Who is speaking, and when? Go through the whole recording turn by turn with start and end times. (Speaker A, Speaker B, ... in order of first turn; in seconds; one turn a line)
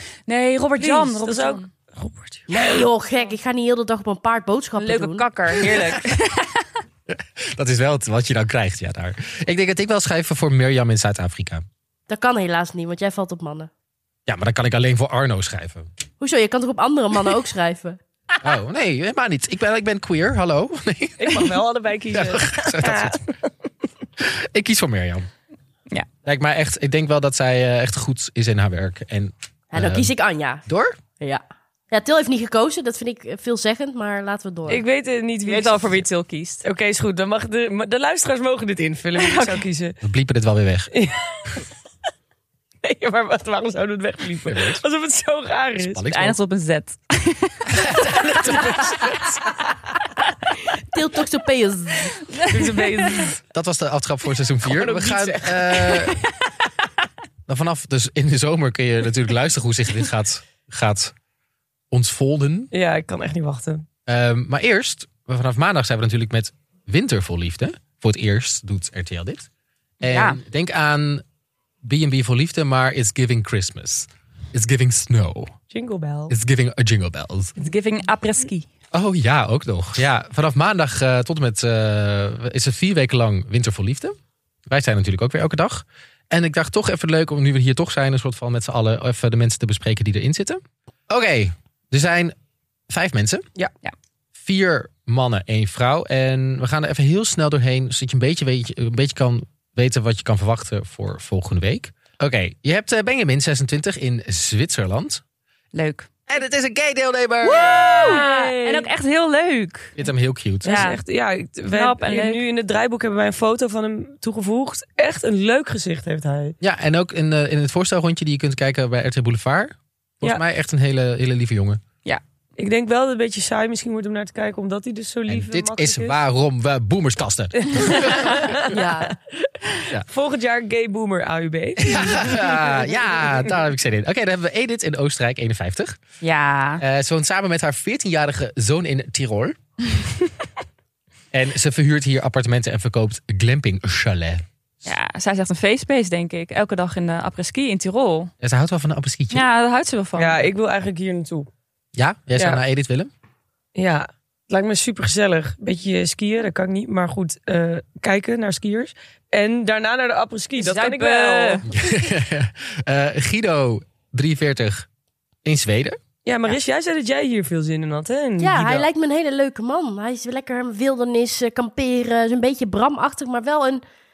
Speaker A: 0.3-1.7
Speaker B: 0.8-2.5
Speaker C: 2.5-5.2
Speaker A: 4.8-6.7
Speaker D: 7.1-11.6
Speaker C: 12.1-13.7
Speaker D: 14.3-15.9
Speaker C: 16.2-18.0
Speaker D: 18.4-23.2
Speaker B: 21.2-23.5
Speaker D: 24.2-25.3
Speaker D: 26.2-30.1
Speaker C: 29.7-30.6
Speaker D: 30.7-31.0
Speaker C: 31.2-34.8
Speaker B: 34.7-36.0
Speaker A: 35.5-36.6
Speaker B: 36.6-40.0
Speaker A: 39.2-39.6
Speaker D: 40.0-40.9
Speaker B: 40.9-41.7
Speaker B: 42.8-46.0
Speaker D: 44.4-44.8
Speaker D: 45.8-46.4
Speaker A: 46.1-47.7
Speaker D: 47.7-49.4
Speaker B: 47.9-49.7
Speaker C: 50.9-52.1
Speaker A: 52.3-53.3
Speaker B: 52.4-53.4
Speaker D: 53.5-56.2
Speaker B: 54.6-56.2
Speaker D: 57.5-61.1
Speaker D: 61.9-62.7
Speaker B: 62.7-63.9
Speaker D: 64.1-69.5
Speaker D: 70.0-71.2
Speaker A: 70.1-70.4
Speaker D: 71.8-75.6
Speaker B: 75.7-76.3
Speaker D: 76.3-77.5
Speaker A: 77.6-78.7
Speaker D: 78.9-84.2
Speaker D: 84.7-92.3
Speaker D: 92.9-93.5
Speaker D: 94.4-105.2
Speaker A: 105.7-106.1
Speaker D: 106.3-108.2
Speaker A: 107.4-110.0
Speaker B: 107.5-108.9
Speaker D: 110.0-110.8
Speaker A: 110.6-111.0
Speaker B: 110.6-116.5
Speaker A: 111.7-112.5
Speaker D: 116.6-121.8
Speaker B: 122.6-126.2
Speaker D: 125.3-128.7
Speaker B: 127.7-133.5
Speaker C: 128.7-129.2
Speaker D: 131.8-136.0
Speaker A: 136.2-136.8
Speaker D: 136.8-139.6
Speaker D: 141.3-144.9
Speaker A: 144.8-148.3
Speaker D: 148.4-149.5
Speaker A: 149.3-150.4
Speaker B: 150.2-151.5
Speaker D: 152.0-153.1
Speaker B: 153.8-161.7
Speaker A: 160.6-161.7
Speaker D: 161.7-164.9
Speaker D: 165.4-166.0
Speaker B: 166.2-168.9
Speaker C: 168.4-173.8